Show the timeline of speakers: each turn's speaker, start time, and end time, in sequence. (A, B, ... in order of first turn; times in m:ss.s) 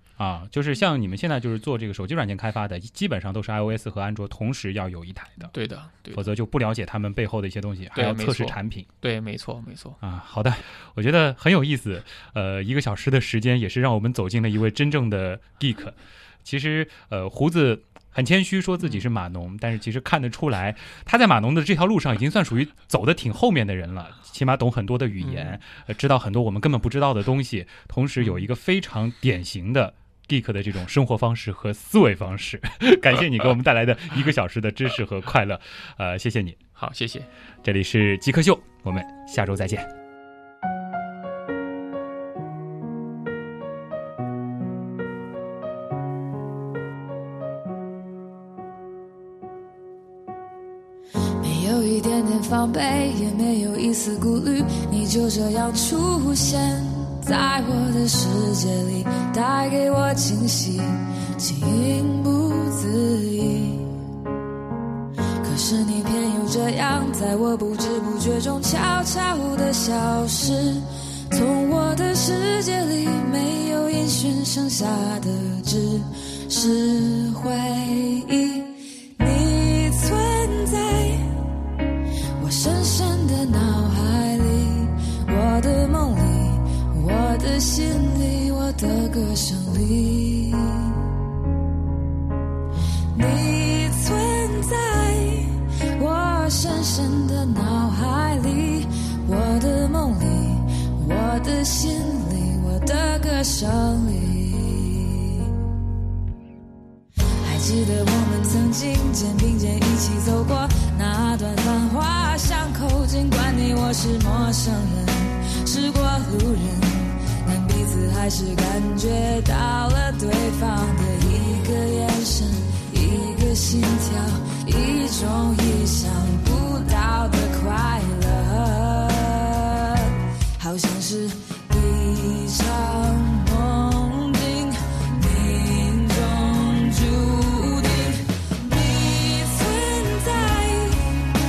0:00.2-0:05.5 A
0:05.5-0:06.3 B
0:06.1-0:08.9 A
0:07.9-0:10.0 B
0:10.0-0:36.6 A
0:25.2-0:25.6 B
0:36.8-0:37.3 B
0:37.6-0:39.9 A
0:51.4-1:03.9 C
1:05.4-1:21.3 C
1:22.4-1:31.0 C
1:33.1-1:45.5 C
1:47.4-2:21.3 C